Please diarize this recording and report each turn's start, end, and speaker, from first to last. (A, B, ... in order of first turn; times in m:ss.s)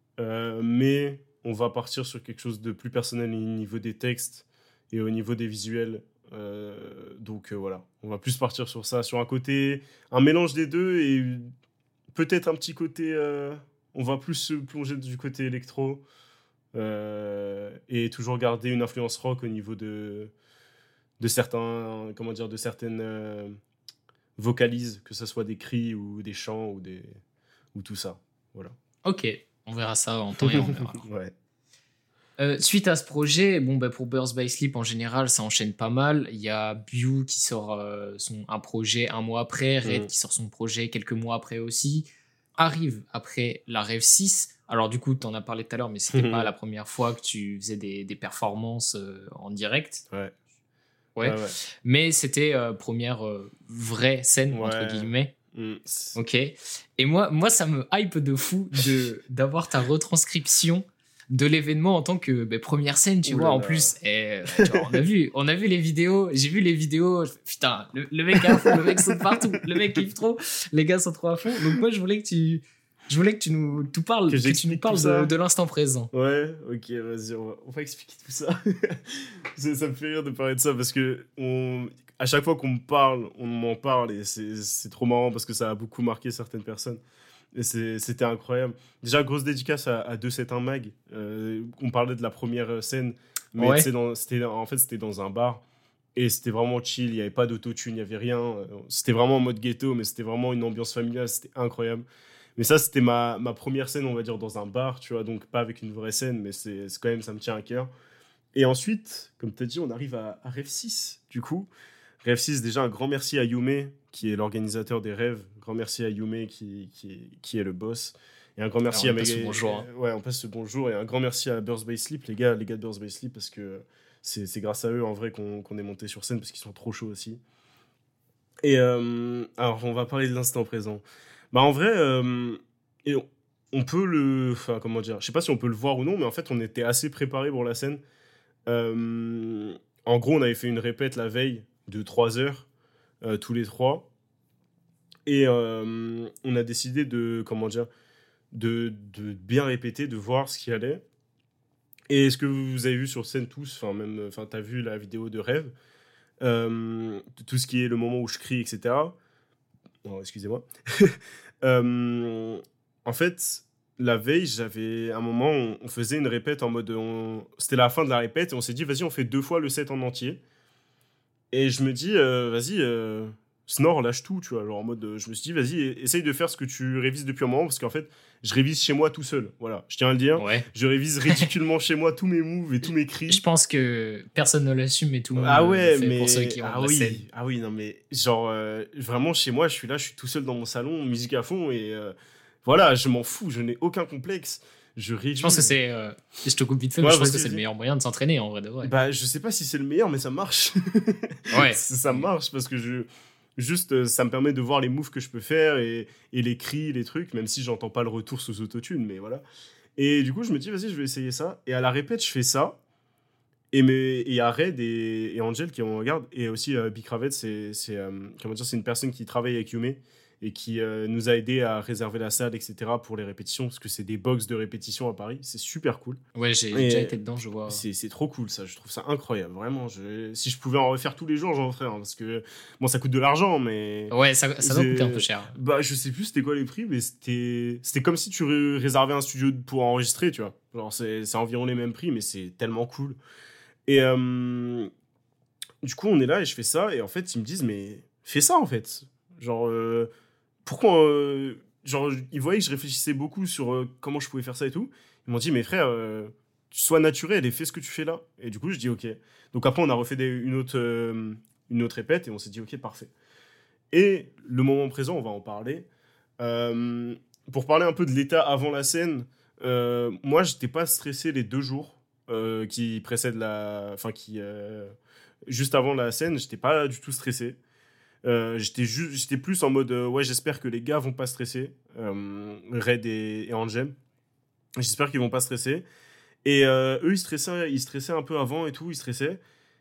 0:00.2-0:11.5 A
0:12.1-0:16.0 A
0:16.7-0:20.3 A
0:21.2-0:23.6 A
0:24.4-0:27.2 A
0:27.7-0:28.8 A
0:29.0-0:31.0 B
0:30.4-0:31.3 A
0:32.4-0:50.0 B
0:46.1-0:46.5 A
0:51.2-0:55.3 B
0:51.2-0:51.6 A
0:54.5-0:56.2 A
0:56.2-1:16.1 B
1:03.2-1:04.0 A
1:04.6-1:05.0 A
1:08.4-1:09.8 A
1:14.3-1:15.3 A
1:16.1-1:27.0 A
1:27.5-1:35.6 A
1:33.6-1:33.9 B
1:36.2-1:42.0 A
1:42.6-1:47.9 A
1:48.6-1:51.7 A
1:52.2-2:07.4 A
1:58.9-1:59.9 B
2:08.6-2:18.0 A
2:18.7-2:22.7 A
2:23.2-2:24.1 A
2:25.3-2:27.9 A
2:28.5-2:31.0 A
2:32.1-2:35.7 A
2:36.4-2:39.2 A
2:40.0-2:50.4 A
2:51.5-3:03.4 A
3:00.4-3:00.7 B
3:03.3-3:07.2 B
3:05.4-3:15.7 A
3:15.4-3:18.9 B
3:17.0-3:17.6 A
3:18.8-3:29.4 A
3:21.5-3:22.3 B
3:30.0-3:32.8 A
3:33.7-3:46.2 A
3:46.4-3:47.8 B
3:46.7-3:47.2 A
3:47.7-4:03.2 A
3:54.1-3:55.6 B
4:03.9-4:04.9 A
4:05.8-4:10.1 A
4:10.6-4:23.1 A
4:23.9-4:25.9 A
4:26.4-4:34.9 A
4:35.5-4:37.6 A
4:38.2-4:44.0 A
4:44.8-4:45.8 A
4:46.4-4:49.4 A